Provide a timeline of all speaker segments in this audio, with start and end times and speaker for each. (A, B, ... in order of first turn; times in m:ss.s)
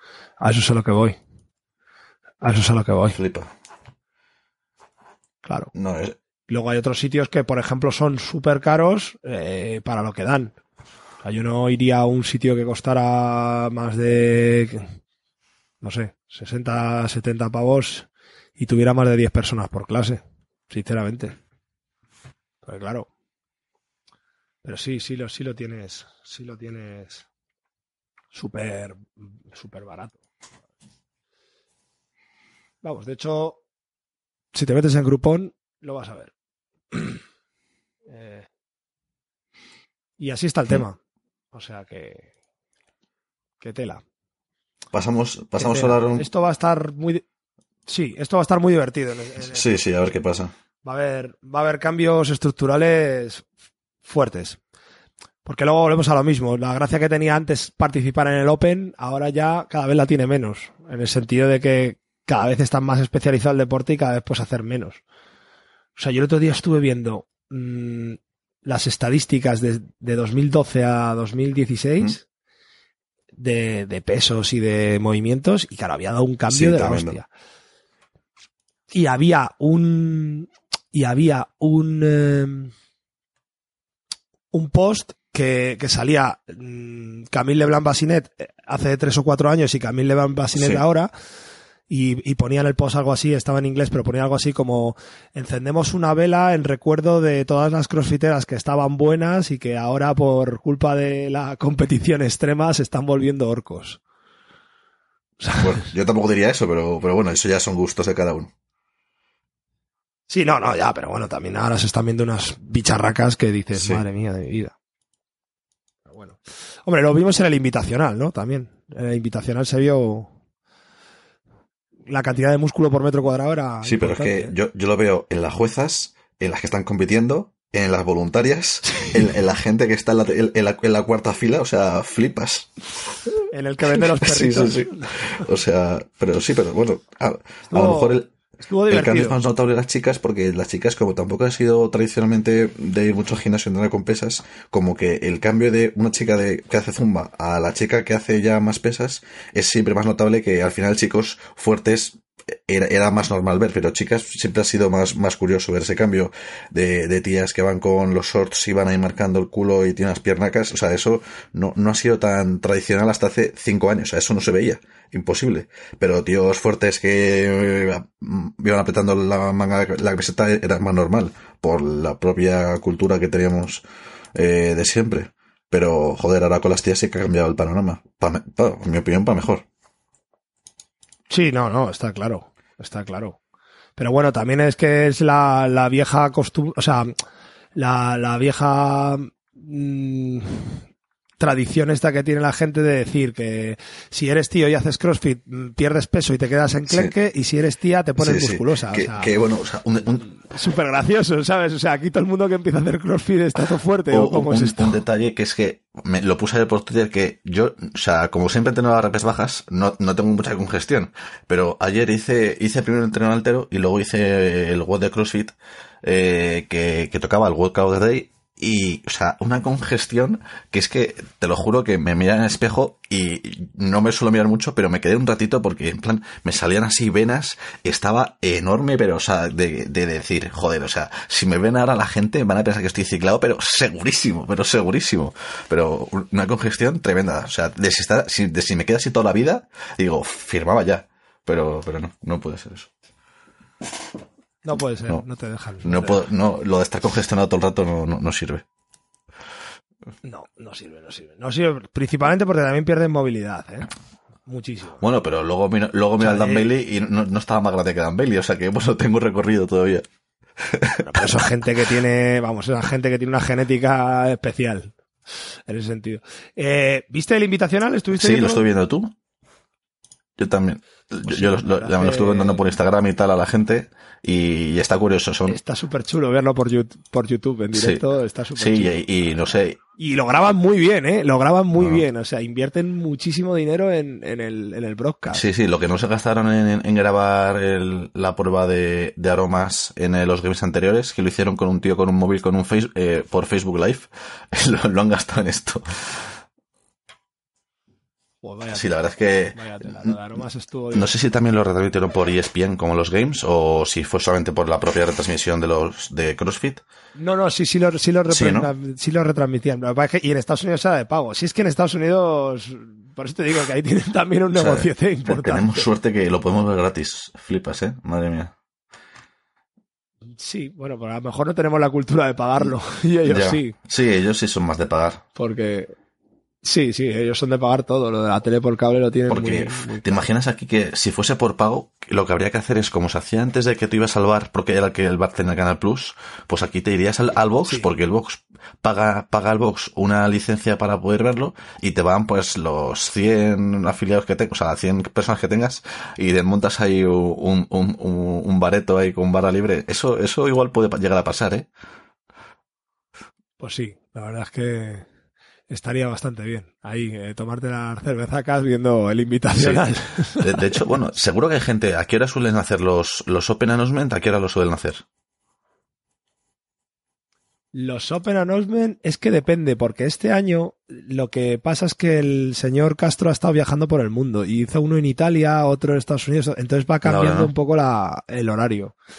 0:00.4-0:01.2 A
0:02.4-0:03.2 A
0:03.1-0:03.5 B
0:05.4-0:05.7 A
0:05.7-0:06.2 B
0:06.5-0:10.5 A
0:11.2-0:14.9 A
0:15.8-0:21.4 A
0:22.6-0:23.1 A
0:24.6-0:27.2 A
0:28.3-0:30.2 A
0:32.8-0:33.6 A
0:34.5-0:36.3 A
0:36.9-0:37.2 A
0:38.1-0:38.5 A
0:40.2-0:41.0 A
0:41.5-0:42.3 A
0:43.6-0:44.0 A
0:44.9-0:46.3 B
0:45.6-0:47.2 A
0:47.9-0:49.8 A
0:49.4-0:50.5 B
0:50.8-0:53.4 A
0:54.0-0:54.6 A
0:55.4-1:05.0 A
1:06.0-1:12.2 A
1:13.4-1:17.3 A
1:16.5-1:17.2 B
1:18.9-1:22.7 A
1:24.5-1:31.1 A
1:30.6-1:30.8 B
1:31.9-1:44.0 A
1:45.4-1:45.7 A
1:45.6-1:48.5 B
1:50.3-1:54.7 A
1:53.7-1:54.0 B
1:56.1-2:00.3 A
2:02.1-2:04.5 A
2:03.8-2:12.7 B
2:08.9-2:09.1 A
2:13.5-2:15.4 A
2:13.9-2:18.3 B
2:17.7-2:19.4 A
2:18.9-2:53.8 B
2:54.3-2:59.6 B
3:01.3-3:03.4 A
3:04.0-3:07.1 A
3:07.8-3:10.8 A
3:11.4-3:19.3 A
3:16.9-3:17.1 B
3:18.2-3:20.3 B
3:20.2-3:25.0 A
3:24.1-4:02.9 B
4:04.6-4:06.2 A
4:05.8-4:08.6 B
4:10.2-4:13.9 A
4:14.5-4:15.0 A
4:15.0-4:20.0 B
4:16.2-4:16.7 A
4:20.6-4:21.4 B
4:21.0-4:24.9 A
4:25.7-4:28.6 A
4:28.1-4:29.1 B
4:30.4-4:35.6 B
4:31.3-4:32.7 A
4:35.4-4:39.0 A
4:37.7-4:38.0 B
4:38.6-4:39.8 B
4:40.0-4:45.4 A
4:41.8-4:42.0 B
4:45.3-4:56.4 B
4:58.4-5:01.1 A
4:58.7-5:00.2 B
5:00.9-5:06.8 B
5:07.2-5:15.9 A
5:08.3-5:08.7 B
5:14.5-5:18.5 B
5:20.4-5:23.8 A
5:23.2-5:25.2 B
5:25.4-5:25.9 A
5:26.6-5:30.2 A
5:29.3-5:51.7 B
5:53.6-5:55.0 A
5:55.7-6:00.8 A
5:59.5-5:59.8 B
6:00.4-6:05.0 B
6:07.7-6:18.9 A
6:17.0-6:17.5 B